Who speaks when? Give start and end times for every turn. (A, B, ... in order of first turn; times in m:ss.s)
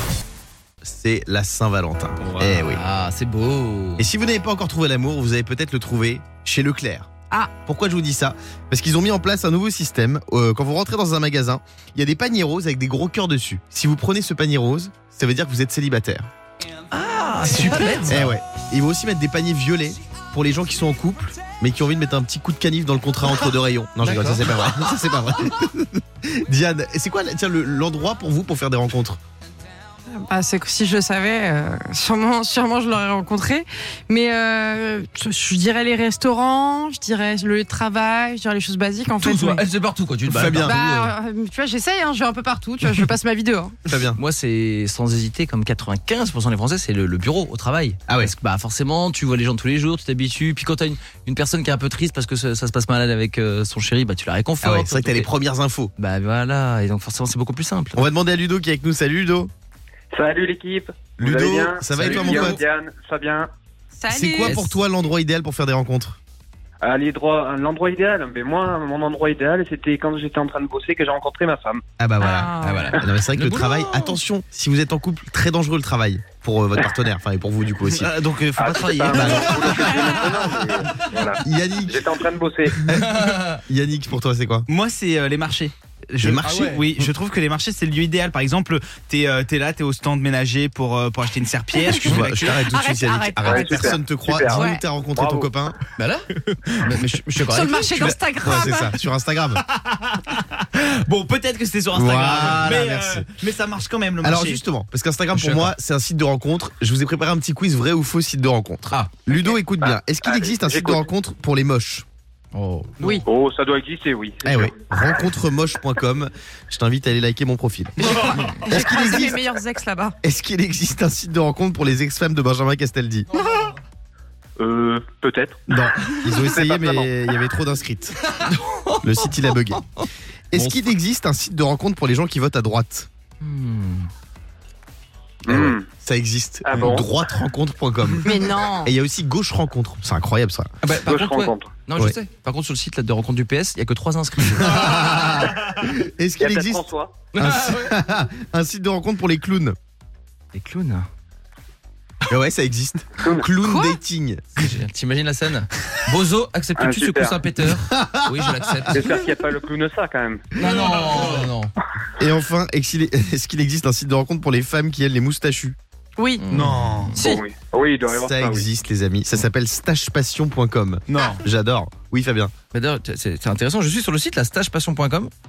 0:00.8-0:02.8 A
0:02.2-0:04.1 B
0:04.0-0:07.1 A
0:07.6-0:16.3 A
0:16.9-0:18.3 B
0:17.5-0:29.2 A
0:24.0-0:24.5 B
0:30.1-0:39.6 C
0:39.2-0:41.1 B
0:40.2-0:40.8 A
0:40.6-0:43.8 C
0:43.8-0:44.2 A
0:44.1-0:55.3 B
0:48.1-0:48.3 A
0:54.6-0:55.9 A
0:56.0-0:58.0 B
0:57.9-0:59.5 A
1:00.1-1:03.5 D
1:01.2-1:02.6 A
1:01.9-1:02.6 B
1:04.0-1:04.6 C
1:04.1-1:06.2 A
1:04.4-1:04.8 B
1:06.8-1:11.8 D
1:12.0-1:18.2 A
1:12.2-1:12.9 C
1:12.6-1:14.2 B
1:17.9-1:18.3 E
1:18.6-1:22.8 D
1:18.8-1:19.2 B
1:19.1-1:20.4 A
1:19.8-1:20.2 C
1:21.4-1:22.1 A
1:22.8-1:24.7 A
1:23.0-1:23.6 B
1:24.7-1:32.1 E
1:26.2-1:27.0 A
1:31.7-1:34.8 C
1:31.9-1:35.8 A
1:32.1-1:32.6 B
1:33.4-1:35.5 D
1:35.9-1:38.2 B
1:37.4-1:39.0 C
1:38.4-1:39.6 A
1:39.8-1:44.6 E
1:41.9-1:43.3 A
1:44.2-1:52.0 A
1:45.3-1:45.7 B
1:49.3-1:51.0 D
1:52.5-1:53.2 B
1:53.2-1:54.8 D
1:54.4-1:59.4 A
1:58.0-2:00.2 C
2:00.2-2:03.3 A
2:04.6-2:05.6 D
2:05.7-2:08.2 A
2:06.4-2:07.1 D
2:08.3-2:09.0 B
2:09.0-2:09.8 A
2:10.5-2:13.1 A
2:10.5-2:10.9 B
2:13.4-2:14.1 B
2:15.4-2:15.9 D
2:15.5-2:20.7 A
2:16.6-2:17.1 D
2:18.2-2:18.9 C
2:20.8-2:24.9 B
2:21.0-2:21.7 D
2:24.6-2:26.8 A
2:26.4-2:27.1 D
2:27.3-2:27.9 B
2:27.3-2:29.7 A
2:30.5-2:31.1 B
2:32.3-2:34.4 A
2:33.2-2:33.5 D
2:33.6-2:34.0 C
2:34.5-2:39.1 B
2:36.8-2:37.4 D
2:37.9-2:39.1 A
2:38.9-2:40.4 D
2:40.5-2:41.7 B
2:42.2-2:45.8 A
2:46.2-2:46.4 C
2:46.4-2:47.2 B
2:46.5-2:47.1 E
2:47.2-2:47.4 C
2:47.2-2:48.7 D
2:48.1-2:52.5 A
2:52.7-2:55.3 B